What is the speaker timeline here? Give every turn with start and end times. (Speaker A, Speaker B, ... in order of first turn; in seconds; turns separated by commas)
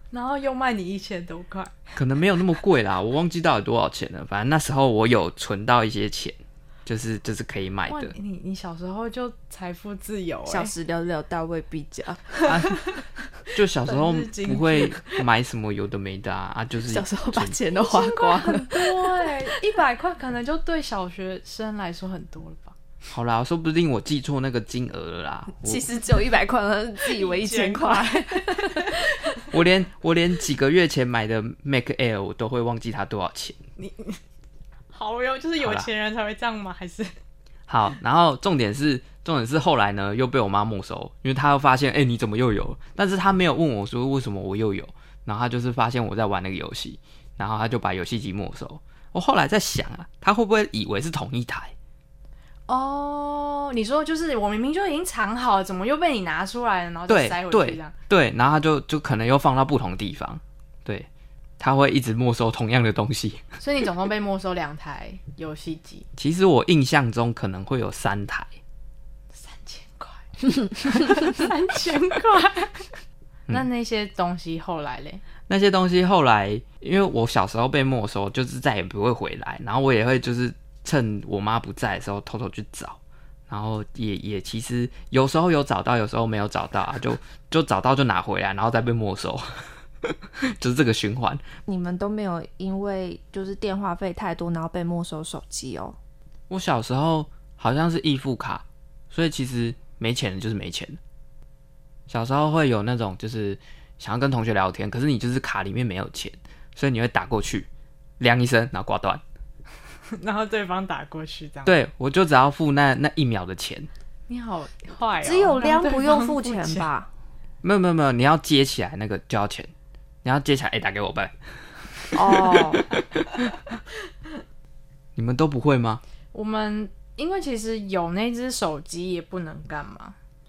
Speaker A: 0.1-1.9, Speaker B: 1.9-8.1, Speaker A: 7.9-10.7, Speaker C: 10.5-12.6, Speaker B: 12.5-12.8, Speaker A: 12.5-13.0, Speaker B: 13.5-17.6, Speaker A: 13.8-15.2, Speaker C: 16.9-19.6, Speaker A: 17.7-22.7, Speaker B: 23.1-25.9, Speaker C: 25.6-29.4, Speaker A: 27.0-29.4, Speaker B: 29.5-33.6, Speaker A: 33.8-34.2, Speaker A: 34.9-37.1, Speaker B: 35.6-35.9, Speaker B: 37.7-51.7, Speaker A: 52.7-57.9, Speaker B: 57.1-63.4, Speaker A: 63.6-66.1, Speaker B: 66.2-68.5, Speaker A: 69.3-75.2, Speaker B: 75.5-91.4, Speaker C: 91.7-96.0, Speaker B: 96.5-101.0, Speaker B: 102.1-107.7, Speaker B: 108.2-109.2, Speaker A: 110.1-111.7, Speaker B: 111.6-113.9, Speaker A: 114.3-116.9, Speaker C: 115.2-117.1, Speaker B: 117.6-119.7, Speaker B: 120.2-121.3, Speaker B: 122.0-123.2, Speaker C: 122.1-122.8, Speaker B: 125.2-126.0, Speaker A: 126.3-130.2